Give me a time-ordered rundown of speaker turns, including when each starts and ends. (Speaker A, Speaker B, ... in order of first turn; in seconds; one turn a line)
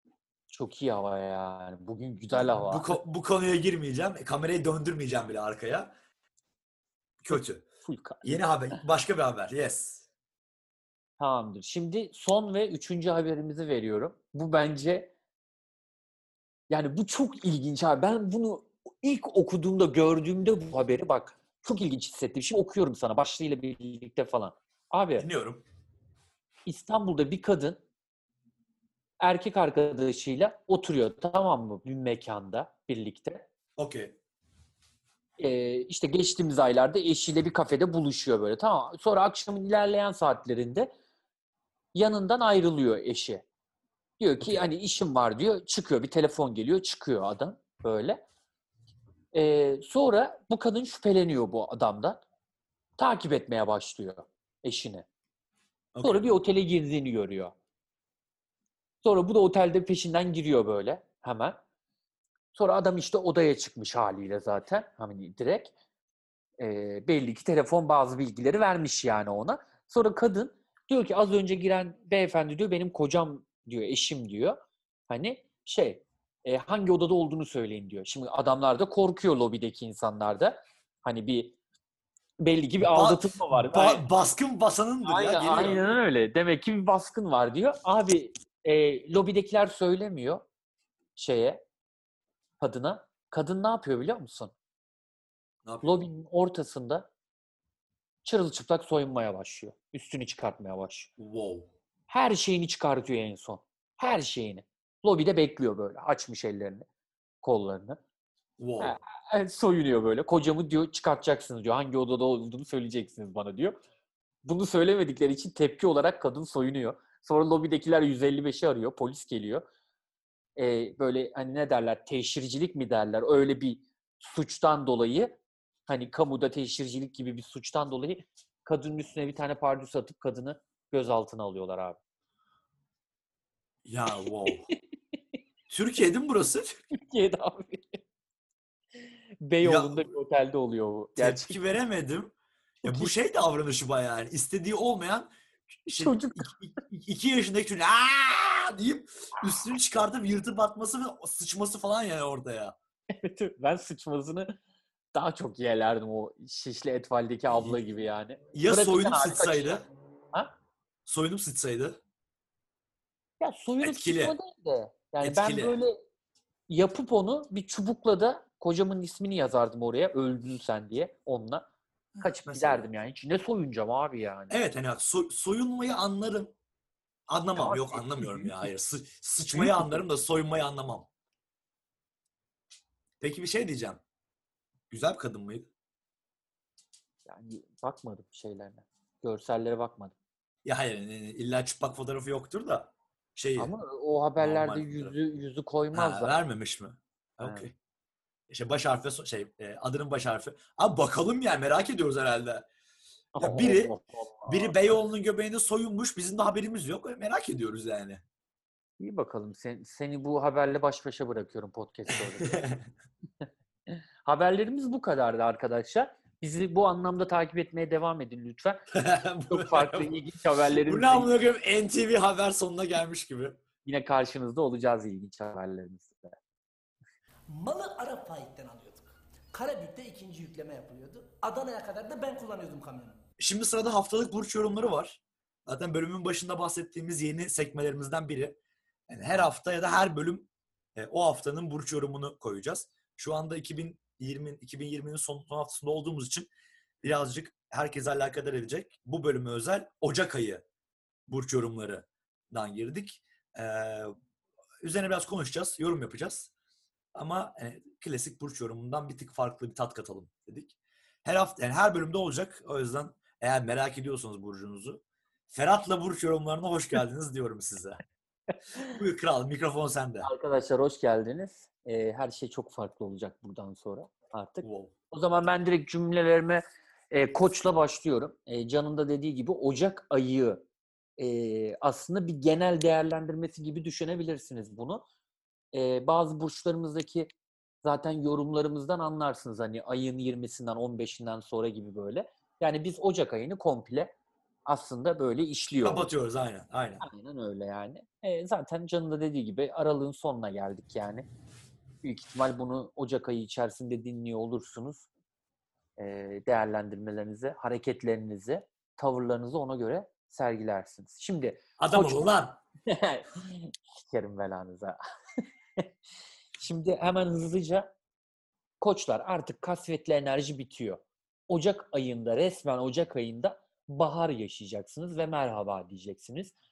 Speaker A: 0.5-3.0
Speaker B: 2.3-5.9
Speaker B: 7.2-7.7
Speaker A: 7.3-8.2
Speaker B: 8.2-10.0
Speaker A: 11.2-15.1
Speaker A: 16.7-25.2
Speaker B: 25.2-25.6
Speaker A: 26.6-27.8
Speaker A: 29.2-33.5
Speaker B: 33.8-34.1
Speaker A: 35.4-40.9
Speaker A: 41.9-43.4
Speaker A: 44.2-48.2
Speaker A: 49.3-52.2
Speaker A: 53.0-55.0
Speaker B: 55.9-56.3
Speaker A: 56.0-57.5
Speaker A: 59.0-61.6
Speaker A: 62.5-65.7
Speaker A: 66.6-74.6
Speaker A: 75.1-81.5
Speaker A: 82.4-84.0
Speaker B: 82.8-85.8
Speaker A: 85.0-90.4
Speaker A: 91.2-91.6
Speaker A: 92.6-94.5
Speaker B: 95.6-96.1
Speaker A: 95.8-97.1
Speaker A: 98.2-101.1
Speaker B: 101.2-101.7
Speaker A: 102.1-106.8
Speaker A: 107.4-108.0
Speaker B: 108.6-109.0
Speaker A: 108.8-113.8
Speaker A: 114.4-119.6
Speaker A: 120.6-132.0
Speaker B: 133.8-134.7
Speaker A: 134.5-134.7
Speaker B: 135.7-136.8
Speaker A: 136.9-138.0
Speaker A: 139.4-141.6
Speaker B: 139.6-140.1
Speaker B: 141.2-142.3
Speaker A: 142.8-143.1
Speaker B: 142.8-145.3
Speaker B: 145.8-152.8
Speaker A: 146.0-146.5
Speaker A: 153.1-154.6
Speaker A: 155.1-160.5
Speaker B: 157.5-157.8
Speaker B: 158.5-159.9
Speaker B: 161.1-162.0
Speaker A: 163.4-166.0
Speaker B: 163.8-164.3
Speaker B: 165.2-165.8
Speaker A: 166.7-171.6
Speaker B: 172.1-172.9
Speaker A: 172.2-174.5
Speaker B: 174.5-176.5
Speaker B: 177.3-181.1
Speaker A: 177.5-178.5
Speaker A: 179.5-180.0
Speaker B: 183.2-184.0
Speaker B: 184.9-185.7
Speaker A: 187.2-190.1
Speaker B: 190.6-193.7
Speaker A: 193.6-196.3
Speaker B: 194.4-195.2
Speaker B: 195.9-197.7
Speaker A: 197.4-197.7
Speaker B: 198.5-202.7
Speaker A: 203.3-204.8
Speaker B: 203.4-203.9
Speaker B: 204.4-208.2
Speaker A: 209.0-212.6
Speaker B: 212.1-212.8
Speaker A: 213.9-218.8
Speaker B: 218.9-220.1
Speaker A: 219.5-221.3
Speaker B: 220.8-223.6
Speaker A: 223.8-226.3
Speaker C: 227.5-233.2
Speaker B: 233.4-238.6
Speaker B: 239.1-246.5
Speaker B: 247.0-250.6
Speaker B: 251.3-254.1
Speaker B: 254.8-256.5
Speaker B: 257.1-268.0
Speaker B: 268.7-270.3
Speaker A: 270.2-280.6
Speaker B: 274.6-274.9
Speaker A: 281.2-285.0
Speaker A: 285.7-287.3
Speaker A: 287.8-294.1
Speaker A: 294.6-296.0
Speaker B: 295.8-297.0
Speaker A: 297.0-301.2
Speaker A: 302.0-305.0
Speaker A: 306.0-312.3
Speaker B: 311.8-312.6
Speaker A: 312.9-315.9
Speaker A: 316.6-317.9
Speaker A: 318.8-326.5